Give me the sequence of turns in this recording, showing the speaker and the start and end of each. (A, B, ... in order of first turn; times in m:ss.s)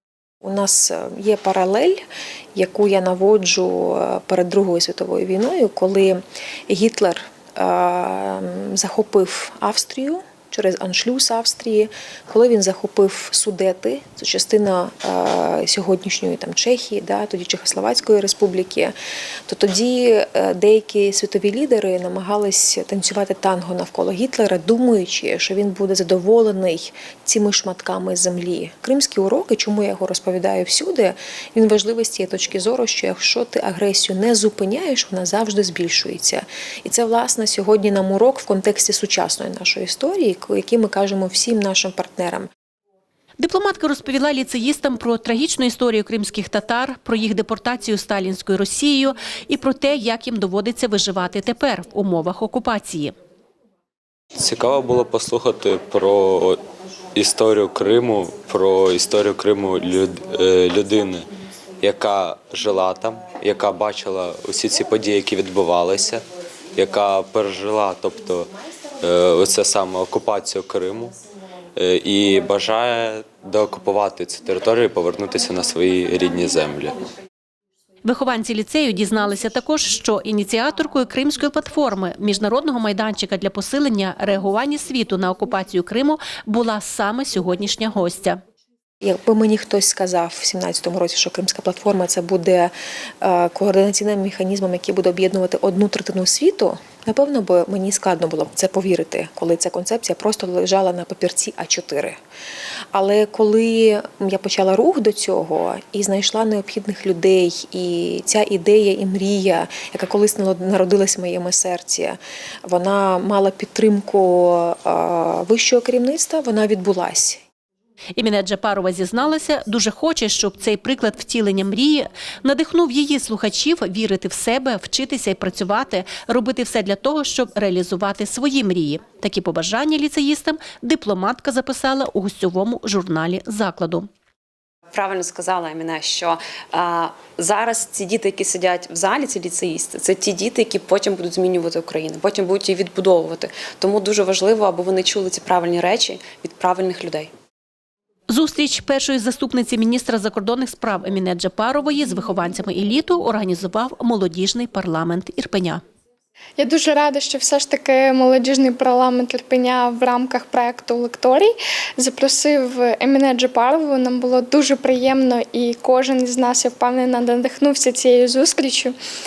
0:00.4-0:02.0 A
0:02.6-0:19.0 A
0:19.5-0:42.5 A
0:43.4-0:53.2 B
0:54.4-0:56.6 C
0:57.1-1:11.2 C
1:11.8-1:17.1 C
1:18.0-1:28.4 B
1:29.0-1:42.2 A
1:42.9-1:57.4 A
1:58.2-2:14.1 B
2:14.9-2:27.3 D
2:28.3-2:35.8 B
2:36.6-2:49.0 E